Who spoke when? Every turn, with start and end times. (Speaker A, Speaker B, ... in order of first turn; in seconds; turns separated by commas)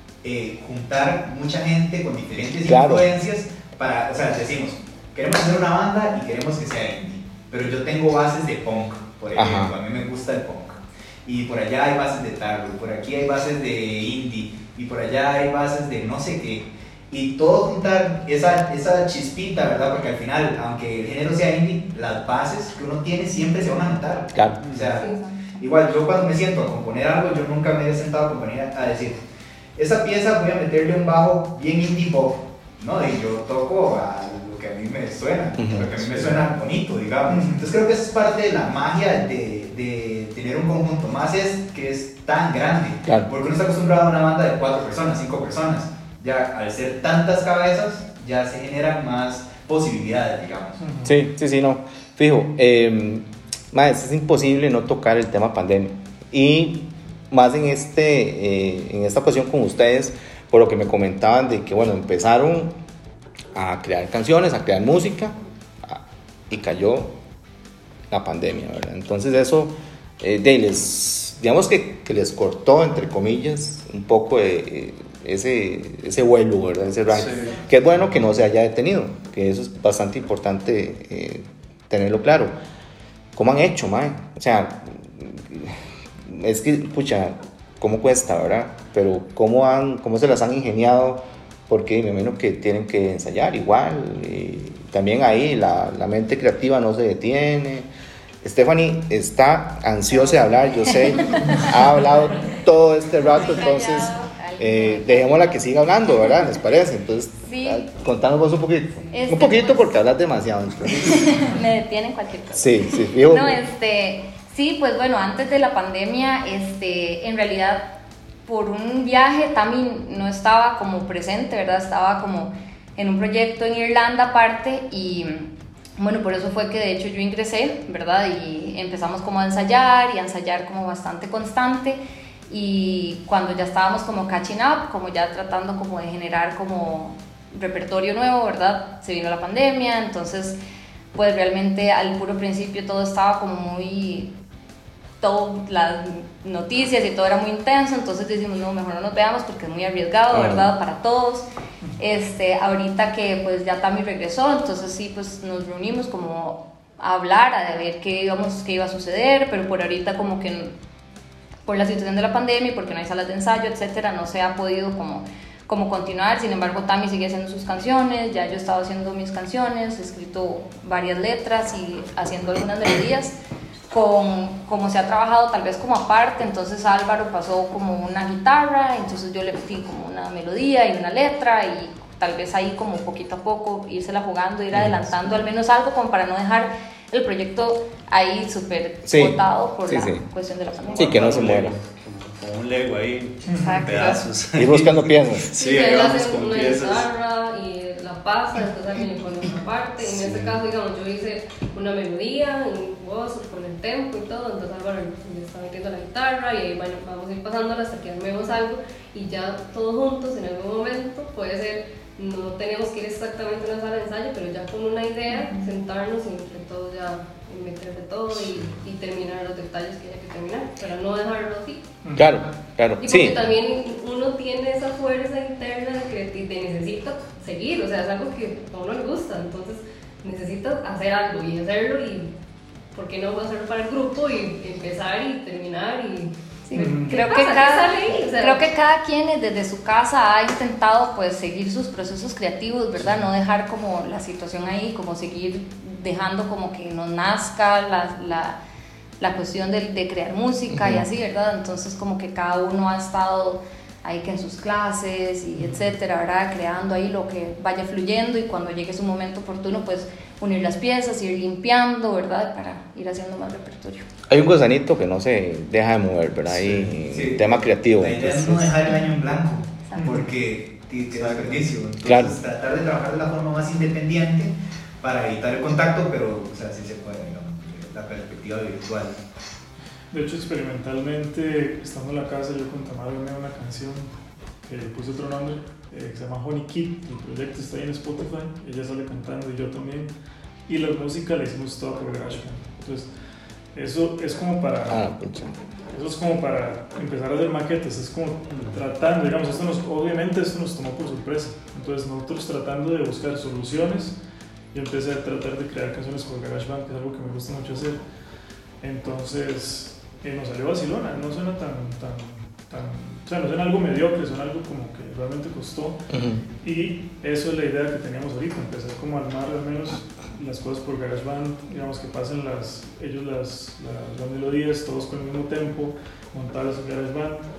Speaker A: 0.2-29.2, Speaker B: 2.6-3.1, Speaker B: 9.3-9.8, Speaker B: 24.3-24.6, Speaker C: 24.6-25.0, Speaker D: 25.0-25.6, Speaker A: 29.8-50.8, Speaker B: 35.6-36.0, Speaker E: 37.3-37.6, Speaker E: 50.8-51.2, Speaker B: 51.0-62.7, Speaker B: 63.5-67.2, Speaker B: 68.1-82.5, Speaker C: 77.1-77.6, Speaker B: 83.3-97.9, Speaker B: 98.4-111.3, Speaker D: 100.1-102.1, Speaker D: 103.2-106.4, Speaker D: 107.4-107.9, Speaker D: 109.1-110.0, Speaker D: 111.0-117.9, Speaker B: 112.5-113.6, Speaker D: 118.5-140.6, Speaker D: 141.1-144.3, Speaker D: 145.2-151.4, Speaker B: 150.3-150.7, Speaker D: 152.0-160.7, Speaker D: 161.7-173.3, Speaker D: 173.9-191.5, Speaker B: 184.7-185.3, Speaker B: 189.0-190.2, Speaker C: 190.8-197.1, Speaker B: 190.9-191.7, Speaker E: 193.5-193.8, Speaker D: 193.5-194.2, Speaker B: 194.5-195.5, Speaker F: 195.5-221.8, Speaker D: 215.3-215.7, Speaker E: 222.0-222.4, Speaker B: 222.1-223.4, Speaker F: 223.0-232.3, Speaker F: 232.9-238.7, Speaker D: 236.7-248.6, Speaker E: 236.7-237.1, Speaker D: 249.2-264.0, Speaker B: 250.7-251.1, Speaker B: 264.3-268.7, Speaker A: 266.5-279.1, Speaker D: 269.9-270.1, Speaker E: 269.9-270.2, Speaker C: 271.1-271.7, Speaker B: 272.0-272.4, Speaker E: 280.1-284.1, Speaker E: 284.7-290.1, Speaker E: 290.7-293.1, Speaker E: 293.7-295.0, Speaker B: 294.9-295.5, Speaker E: 295.9-304.1, Speaker E: 304.7-308.0, Speaker E: 308.8-316.1, Speaker B: 316.1-316.4, Speaker E: 316.6-327.4